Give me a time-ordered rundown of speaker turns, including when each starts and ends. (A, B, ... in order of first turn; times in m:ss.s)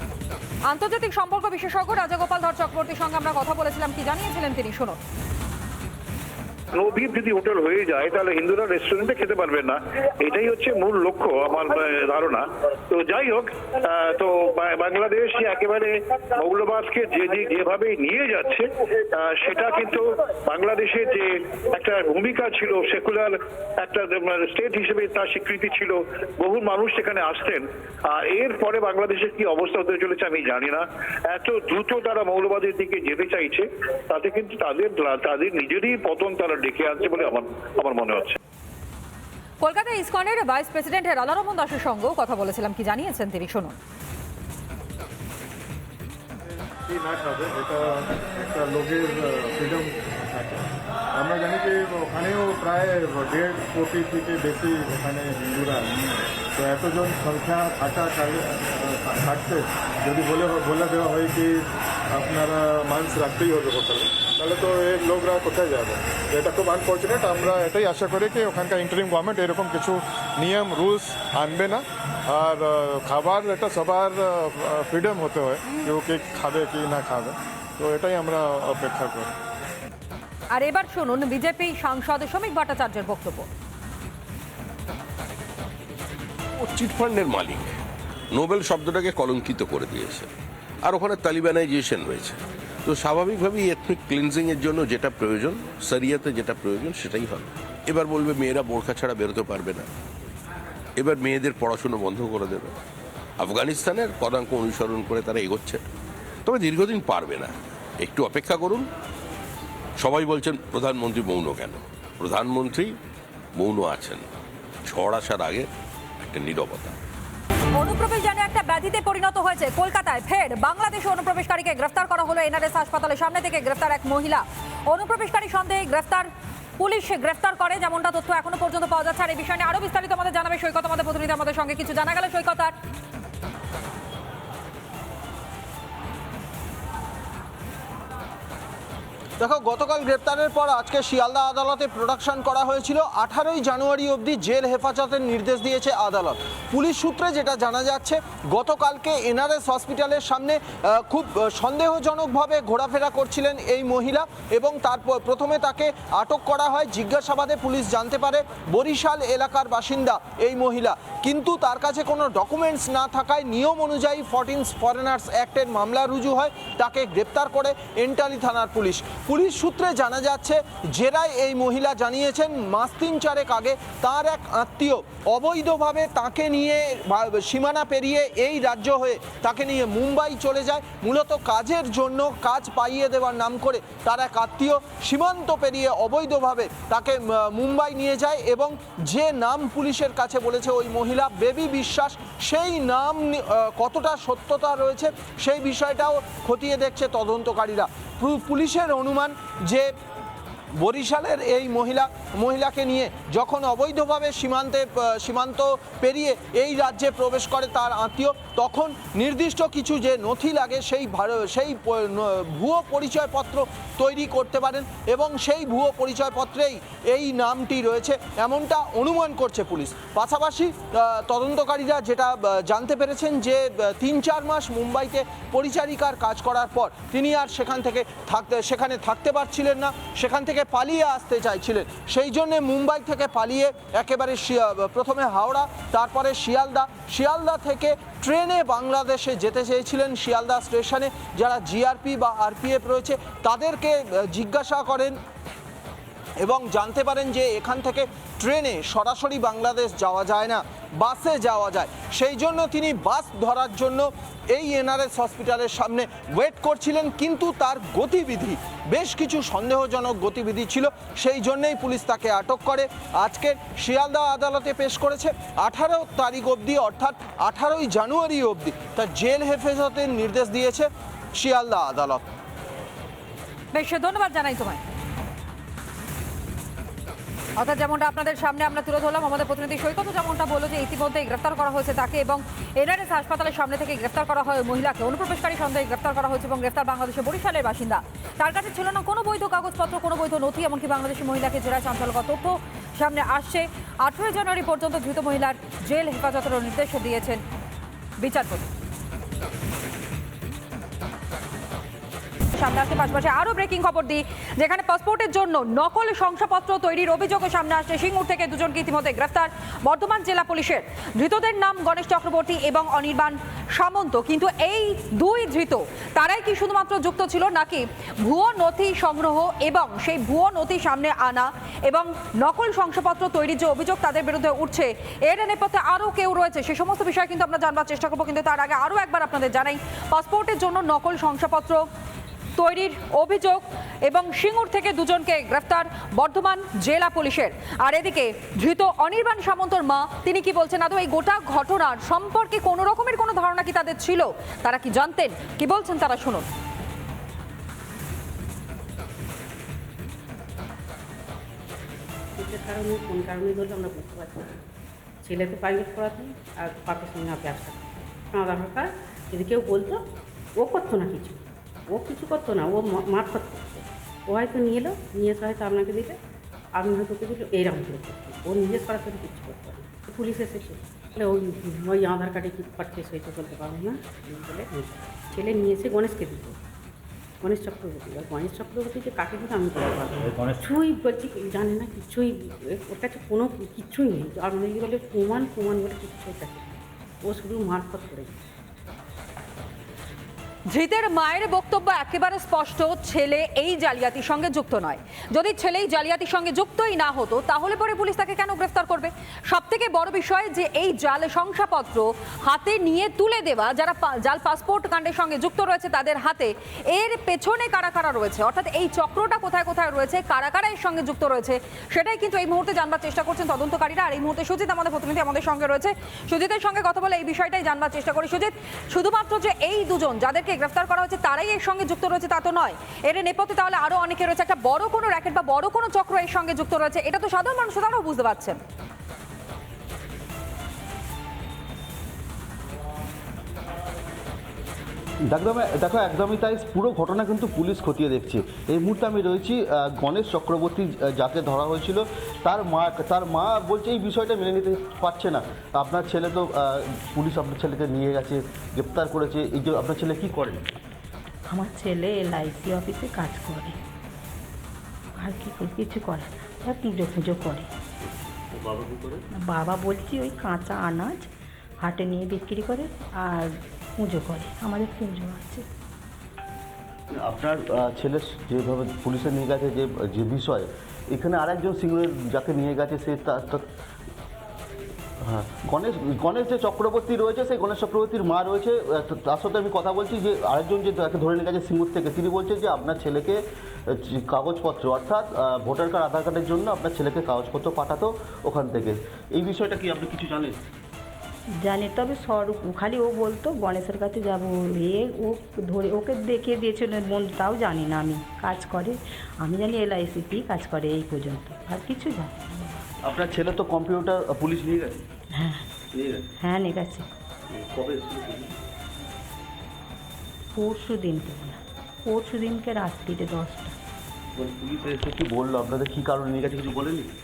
0:00.7-0:05.0 A
0:06.7-0:18.6 B
0:19.2-0:38.4 B
0:39.6-0:43.7 A
0:46.9-0:56.0 C
0:56.6-1:19.3 C
1:20.5-1:23.5 A
1:26.6-1:27.7 D
1:28.3-1:30.3 D
1:30.8-1:39.9 D
1:41.0-1:42.8 D
1:43.4-1:45.8 D
1:46.5-1:48.8 D
1:50.0-1:52.9 D
1:53.6-1:54.2 D
1:54.9-1:55.7 D
1:56.2-1:57.0 D
1:57.7-2:06.3 A
2:06.8-2:12.7 A
2:19.4-3:19.9 E
3:20.8-4:05.2 E
4:06.4-4:32.2 E
4:33.7-4:34.8 A
4:37.6-4:57.4 A
4:58.2-4:58.7 A
5:02.5-5:31.8 A
5:32.6-5:46.5 A
5:52.4-5:54.6 F
5:55.2-6:00.0 F
6:00.6-6:06.2 F
6:06.7-6:16.6 F
6:17.4-6:28.4 F
6:30.7-7:08.6 A
7:15.3-7:30.6 G
7:31.5-7:33.8 H
7:35.2-7:37.7 H
7:38.0-7:39.2 G
7:39.4-7:41.3 H
7:41.8-7:45.6 H
7:47.1-7:53.6 G
7:55.2-8:10.6 G
8:11.6-8:22.9 H
8:23.0-8:25.0 G
8:25.4-8:25.6 H
8:25.9-8:26.3 G
8:26.4-8:27.1 H
8:27.5-8:28.6 G
8:30.6-8:33.8 H
8:34.4-8:37.1 G